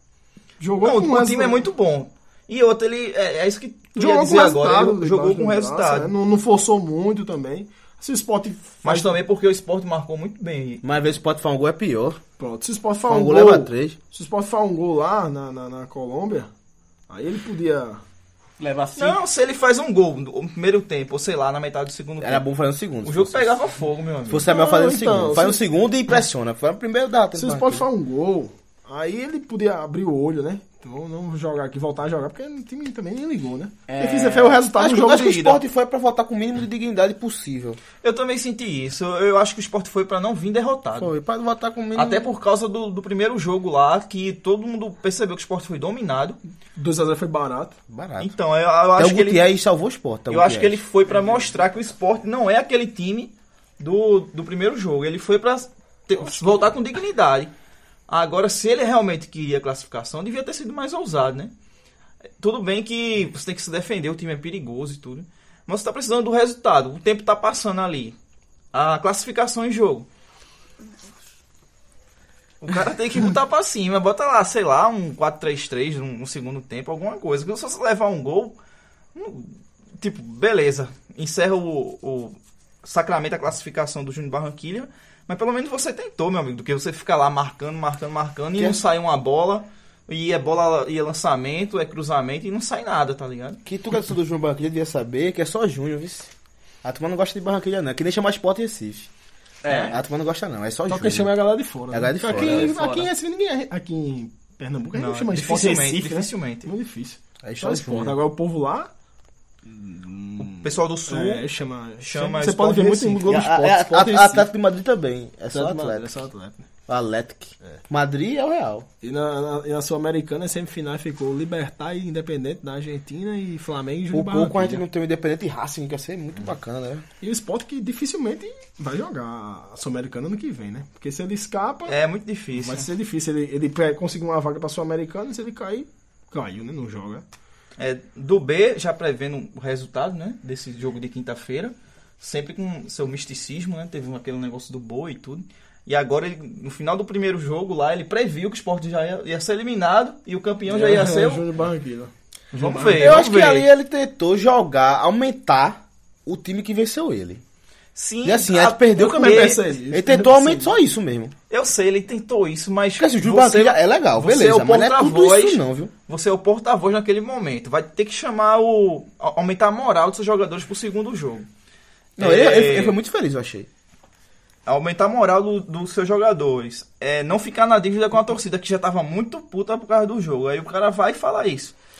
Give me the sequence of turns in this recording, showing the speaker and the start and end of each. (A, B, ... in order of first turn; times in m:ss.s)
0:00.6-0:01.7 A
0:00.8-0:06.1 B
0:04.0-0:09.2 A
0:08.8-0:10.8 B
0:10.8-0:12.2 C
0:12.4-0:16.5 A
0:13.1-0:14.0 C
0:17.1-0:18.0 A
0:18.6-0:19.2 D
0:19.0-0:22.4 B
0:22.2-0:23.5 C
0:23.0-0:24.5 B
0:24.3-0:27.8 C
0:24.4-0:25.6 A
0:27.3-0:35.6 A
0:33.9-0:34.6 D
0:34.7-0:37.8 C
0:38.0-0:41.1 B
0:40.9-0:42.3 C
0:41.9-0:46.4 B
0:46.8-0:47.8 A
0:47.9-0:48.3 C
0:48.2-0:49.4 B
0:49.0-0:50.8 C
0:50.3-0:57.5 B
0:58.1-1:01.5 B
1:02.4-1:08.2 B
1:08.7-1:10.0 B
1:12.6-1:18.6 B
1:19.1-1:33.6 B
1:33.6-1:36.3 C
1:36.8-1:39.1 C
1:39.6-1:40.0 D
1:39.8-1:41.3 C
1:40.9-1:48.9 A
1:41.9-1:43.1 C
1:42.3-1:43.0 D
1:44.9-1:46.7 B
1:47.4-1:48.2 C
1:49.6-1:54.5 A
1:50.4-1:51.4 B
1:52.0-1:53.3 B
1:53.2-1:56.1 C
1:55.5-1:56.7 A
1:56.9-1:58.8 C
1:59.0-2:04.8 A
2:04.1-2:07.0 C
2:07.2-2:11.9 A
2:11.9-2:12.9 B
2:12.5-2:17.2 A
2:17.8-2:31.4 B
2:30.7-2:33.1 A
2:32.5-2:33.7 B
2:32.9-2:37.4 C
2:37.9-2:39.6 B
2:38.2-2:41.3 C
2:39.0-2:40.8 A
2:41.5-2:51.5 B
2:43.0-2:45.9 C
2:52.2-2:53.7 C
2:52.2-2:53.0 B
2:54.6-3:01.7 B